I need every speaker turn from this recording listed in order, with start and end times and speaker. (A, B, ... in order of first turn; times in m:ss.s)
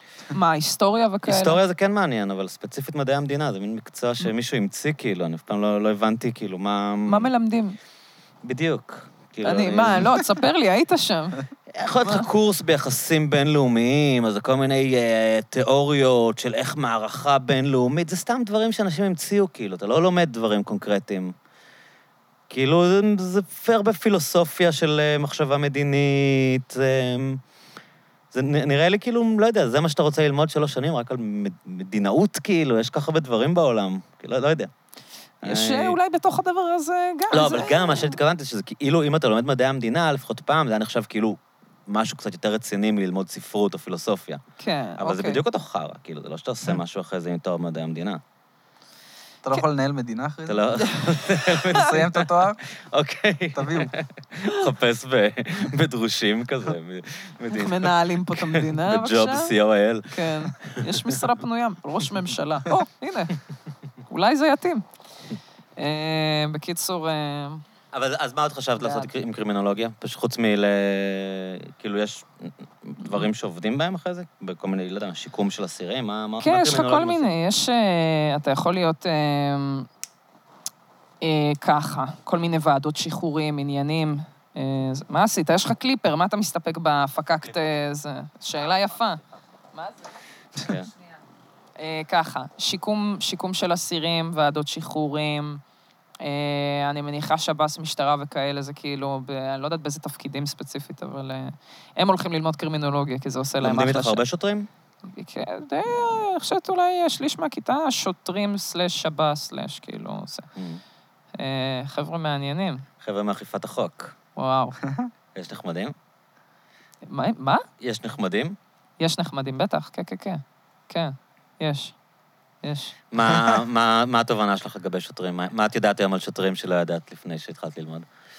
0:00.3-0:01.6 A
0:01.3-0:07.3 B
0:07.1-0:07.8 A
0:08.4-0:10.3 B
0:09.4-0:11.4 A
0:11.7-0:21.3 B
0:12.0-0:12.3 A
0:22.5-0:27.4 B
0:28.3-0:34.7 B
0:35.4-0:36.0 B
0:35.4-0:38.2 A
0:37.3-0:44.4 B
0:44.6-0:45.4 A
0:45.0-0:48.2 B
0:49.4-0:50.8 C
0:50.5-1:01.2 B
0:50.8-0:51.9 A
0:51.7-0:52.6 C
0:53.5-0:53.9 C
0:57.5-0:59.5 A
1:00.1-1:03.4 A
1:04.1-1:04.8 A
1:05.8-1:07.6 A
1:07.9-1:17.3 B
1:08.8-1:09.1 A
1:16.4-1:19.9 A
1:21.2-1:29.2 A
1:29.7-1:30.0 A
1:30.6-1:30.9 B
1:31.8-1:35.6 A
1:36.2-1:44.2 A
1:43.6-1:44.7 B
1:45.1-1:50.5 A
1:50.6-1:50.8 B
1:51.4-1:52.8 A
1:53.0-1:54.2 B
1:54.4-1:54.8 A
1:54.8-1:55.1 C
1:55.4-1:55.9 B
1:57.1-1:57.6 A
1:57.8-1:58.6 B
1:59.0-2:02.0 A
2:02.6-2:03.0 A
2:03.1-2:08.1 B